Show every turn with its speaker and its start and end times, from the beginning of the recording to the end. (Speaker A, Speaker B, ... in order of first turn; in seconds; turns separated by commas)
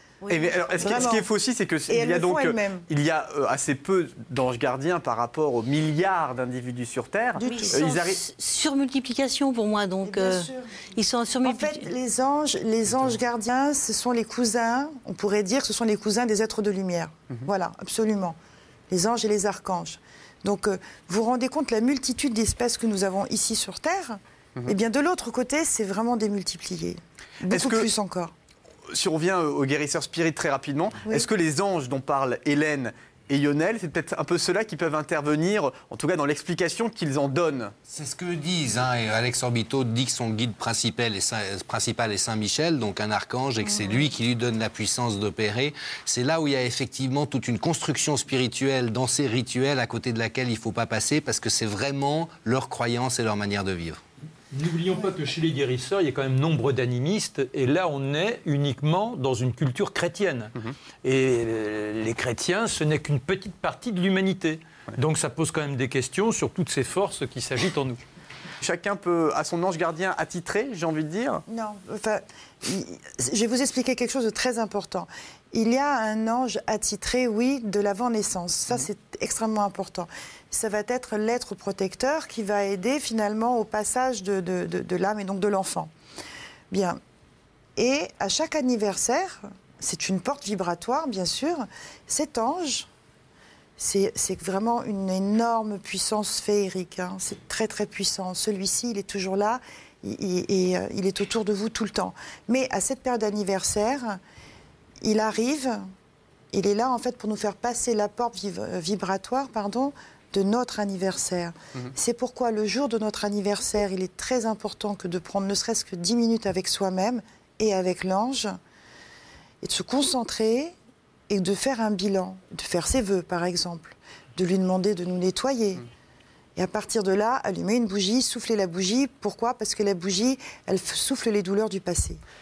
Speaker A: 0.2-1.1, Speaker B: 0.3-8.2, Speaker C: 0.7-1.3, Speaker C: 1.9-2.9, Speaker C: 7.4-7.8, Speaker A: 7.4-11.9, Speaker C: 10.0-10.7, Speaker C: 11.4-18.4, Speaker C: 18.9-28.3, Speaker B: 27.5-27.9, Speaker B: 28.9-37.7, Speaker D: 37.9-54.0, Speaker E: 54.5-60.5, Speaker E: 61.0-68.0, Speaker B: 68.6-71.4, Speaker C: 71.5-85.9, Speaker C: 86.7-87.0, Speaker C: 87.8-92.9, Speaker C: 93.8-104.2, Speaker C: 105.0-105.8, Speaker C: 106.5-118.6, Speaker C: 119.6-120.7, Speaker C: 121.3-125.8, Speaker C: 126.5-132.2